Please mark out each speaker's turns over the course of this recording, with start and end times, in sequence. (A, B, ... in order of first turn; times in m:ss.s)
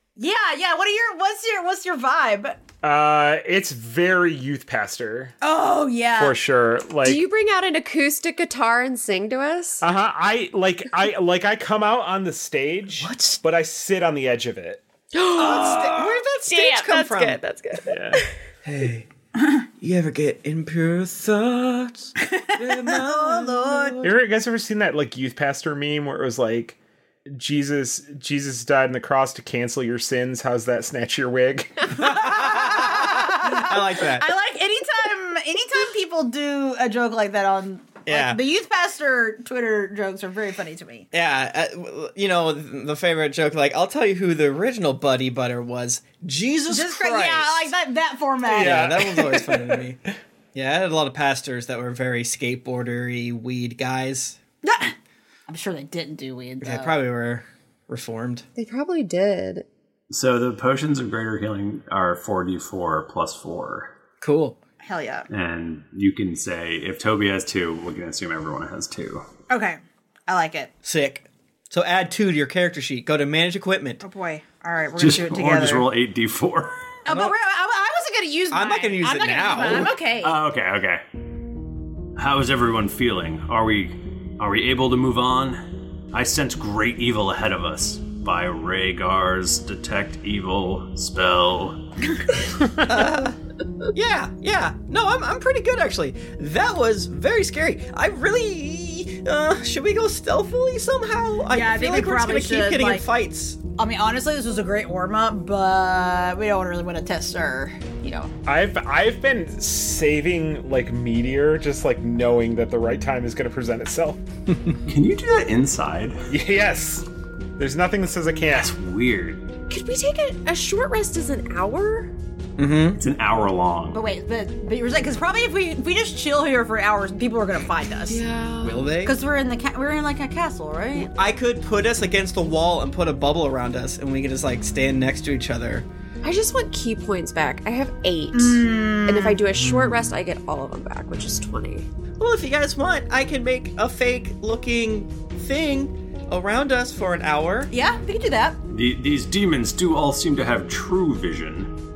0:00.2-0:02.6 A
0:02.8-0:05.3 B
0:05.4-0:06.4 A
0:06.2-0:07.2 B
0:07.0-0:09.9 C
0:09.8-0:14.8 B
0:13.0-0:13.4 D
0:15.1-0:18.2 C
0:15.4-0:17.4 D
0:17.9-0:18.2 B
0:18.6-0:19.1 D
0:19.4-0:19.6 A
0:19.8-0:24.2 D
0:22.2-0:24.0 A
0:24.0-0:26.8 B
0:27.3-0:32.1 B
0:32.0-0:41.1 A
0:32.0-0:34.3 D
0:38.1-0:38.4 D
0:41.1-0:47.7 D
0:46.7-0:49.0 A
0:48.5-0:50.0 D
0:48.5-0:49.4 B
0:50.5-0:54.4 D
0:54.6-0:55.0 A
0:55.5-0:57.0 A
0:56.6-0:58.5 D
0:58.6-0:59.7 C
1:00.1-1:03.9 E
1:04.2-1:04.6 D
1:04.8-1:05.3 A
1:05.3-1:09.2 E
1:09.5-1:10.7 A
1:10.8-1:14.0 D
1:14.0-1:15.9 A
1:15.0-1:16.8 E
1:17.1-1:20.3 A
1:17.1-1:17.3 D
1:18.5-1:19.9 D
1:20.2-1:21.0 E
1:22.2-1:31.9 E
1:32.8-1:33.4 D
1:33.9-1:43.6 D
1:41.5-1:43.1 A
1:43.8-1:48.3 A
1:48.5-1:54.2 B
1:54.9-1:56.2 E
1:56.3-1:57.0 B
1:57.6-1:58.7 B
1:58.5-1:59.5 E
1:59.7-2:02.1 C
2:02.6-2:03.0 D
2:03.0-2:04.0 E
2:03.9-2:08.2 A
2:08.1-2:08.9 C
2:08.6-2:09.2 D
2:09.0-2:11.1 A
2:11.1-2:15.9 D
2:16.2-2:21.9 C
2:18.3-2:19.4 A
2:19.6-2:20.1 D
2:22.2-2:27.7 D
2:27.7-2:28.6 A
2:28.7-2:31.7 E